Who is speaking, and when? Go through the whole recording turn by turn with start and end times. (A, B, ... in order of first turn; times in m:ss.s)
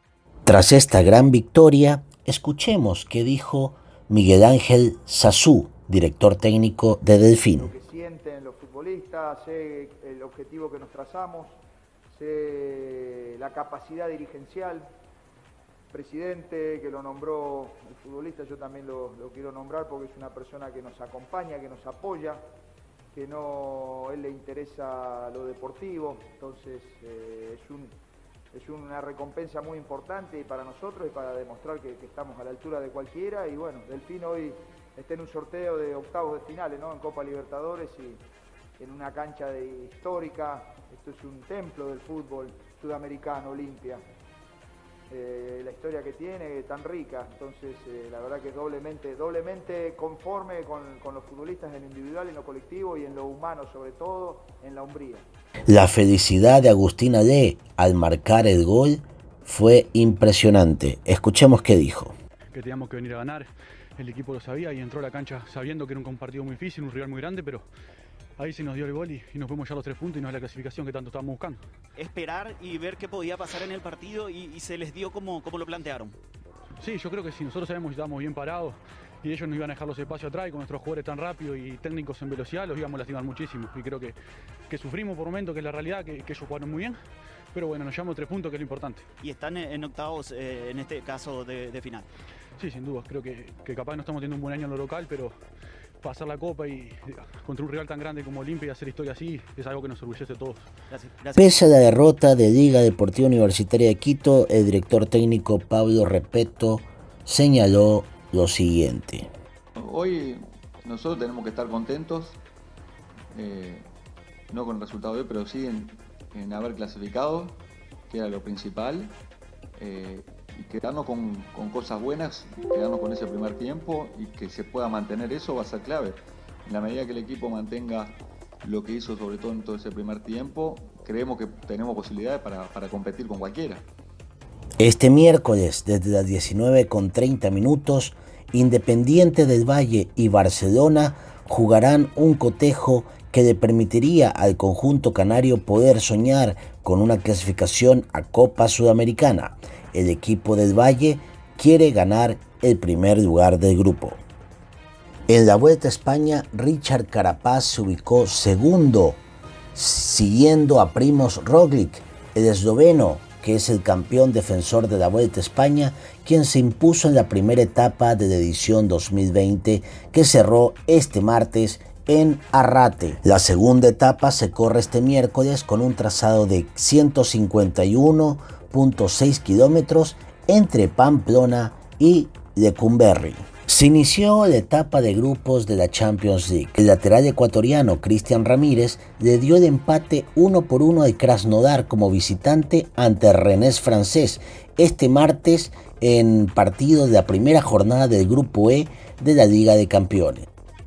0:00.5-0:07.7 A
0:07.6-0:14.9 B
0:15.9-0:22.4 B
0:23.1-0:27.9 B
0:28.5-0:38.2 B
0:38.8-0:44.0 B
0:45.1-0:55.2 B
0:55.7-1:02.1 A
1:02.5-1:07.7 C
1:08.4-1:11.6 C
1:12.0-1:16.2 D
1:16.8-1:24.1 C
1:24.7-1:27.0 C
1:27.5-1:29.0 C
1:29.2-1:32.1 D
1:32.6-1:35.4 C
1:36.0-1:40.7 C
1:40.9-1:41.4 D
1:41.4-1:49.3 A
1:49.8-1:52.4 E
1:53.3-1:53.8 E
1:54.5-1:59.1 E
1:59.8-2:13.8 E
2:14.8-2:34.2 A
2:35.3-2:39.2 A
2:39.7-3:20.5 A